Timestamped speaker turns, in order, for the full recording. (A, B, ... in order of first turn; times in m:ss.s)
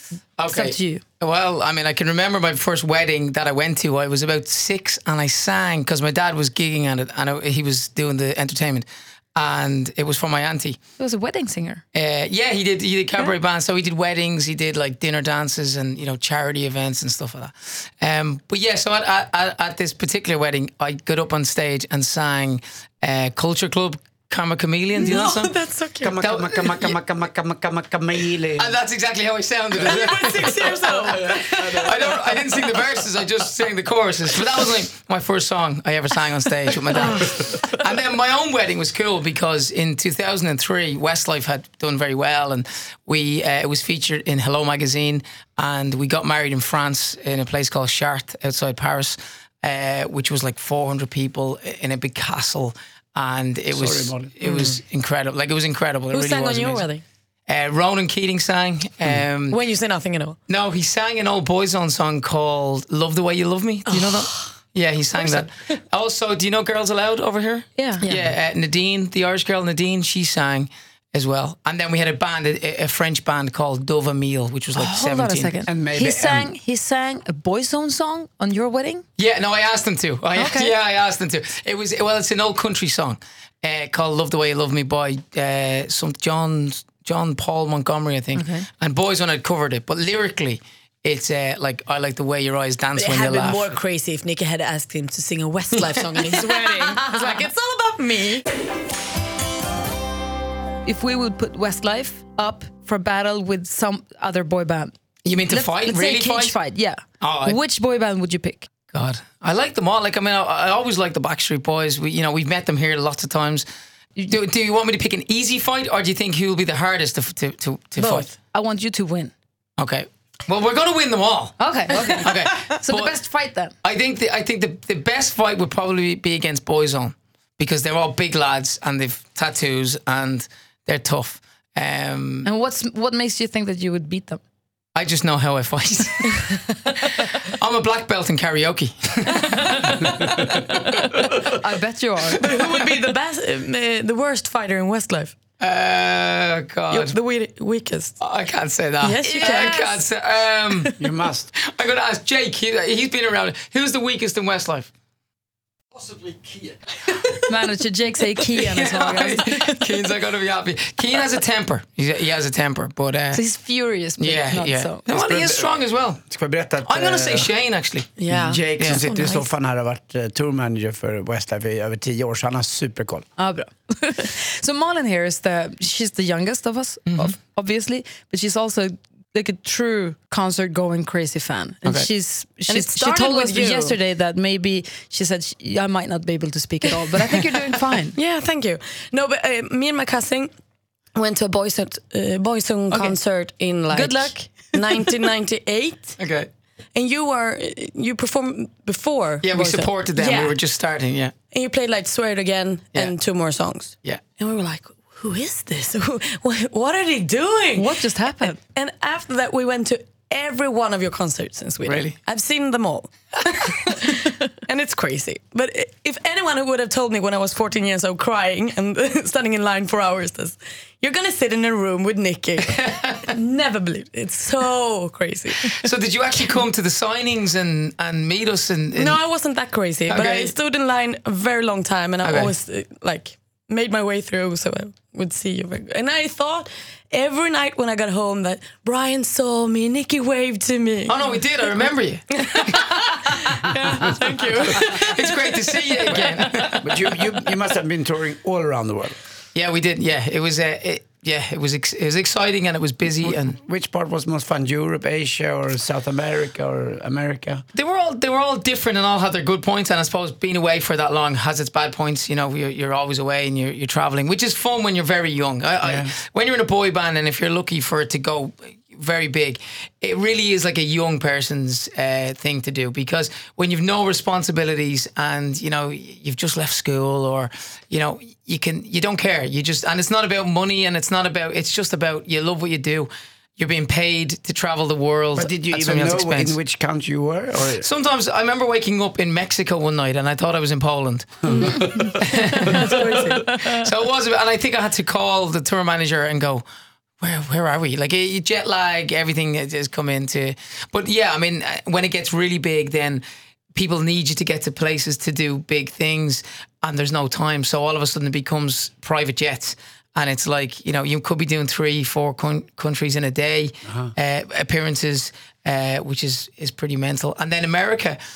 0:00.4-0:08.8 A
0:00.5-0:01.0 B
0:09.4-0:10.8 A
0:11.0-0:11.8 B
0:11.9-0:25.6 A
0:25.0-0:26.2 C
0:26.0-0:28.8 D
0:26.2-0:27.0 A
0:28.6-0:56.9 A
0:29.8-0:31.9 C
0:29.8-0:30.3 D
0:30.9-0:32.3 D
0:53.7-0:54.3 D
0:54.4-0:54.8 C
0:56.1-0:57.0 C
0:57.5-0:59.6 A
0:59.5-1:00.4 C
1:00.5-1:15.5 A
1:03.9-1:04.5 C
1:05.2-1:05.7 C
1:07.8-1:08.1 B
1:08.0-1:08.3 C
1:14.8-1:19.0 B
1:15.7-1:16.5 D
1:19.2-1:33.8 A
1:20.4-1:20.7 B
1:28.4-1:28.7 B
1:33.0-1:38.5 C
1:40.8-1:44.9 B
1:45.2-1:46.6 A
1:45.5-1:48.7 B
1:47.2-1:47.6 A
1:48.9-1:53.7 A
1:54.3-1:58.3 A
1:58.0-1:58.3 C
1:58.5-1:59.3 B
1:59.8-2:01.6 A
2:01.6-2:03.7 B
2:02.1-2:03.1 A
2:03.8-2:12.5 A
2:12.4-2:14.4 B
2:15.0-2:20.6 A
2:19.4-2:19.9 C
2:20.4-2:21.3 C
2:21.3-2:22.5 B
2:22.3-2:25.4 C
2:25.6-2:27.2 A
2:26.9-2:28.2 C
2:28.2-2:31.0 A
2:29.0-2:29.9 C
2:29.2-2:30.0 B
2:31.0-2:31.5 D
2:31.6-2:34.9 A
2:37.5-2:39.8 B
2:38.5-2:43.4 A
2:43.3-2:45.0 B
2:44.2-2:46.2 A
2:45.1-2:45.7 D
2:46.3-2:47.5 D
2:46.8-2:48.1 A
2:48.2-2:49.5 C
2:48.3-2:53.2 D
2:48.8-2:49.0 A
2:53.4-3:08.2 B
3:02.7-3:04.0 C
3:08.2-3:10.5 C
3:11.2-3:16.2 C
3:13.9-3:14.7 B
3:16.2-3:16.5 A
3:17.0-3:20.6 C
3:19.4-3:21.3 A
3:21.5-3:28.0 C
3:27.8-3:28.6 B
3:28.6-3:45.9 C
3:31.8-3:32.1 A
3:42.7-3:43.3 A
3:45.7-3:49.2 A
3:49.0-4:01.3 C
3:50.1-3:50.5 A
3:52.2-3:52.5 A
4:01.1-4:03.5 A
4:02.4-4:06.7 C
4:04.1-4:07.2 A
4:06.1-4:09.2 D
4:09.6-4:13.6 A
4:13.2-4:17.6 D
4:17.8-4:46.6 A
4:25.8-4:26.1 D
4:45.4-4:47.9 D
4:47.8-4:56.6 A
4:51.4-4:52.2 D
4:52.6-4:53.8 C
4:57.2-5:03.2 A
5:03.8-5:18.2 A
5:13.9-5:14.1 D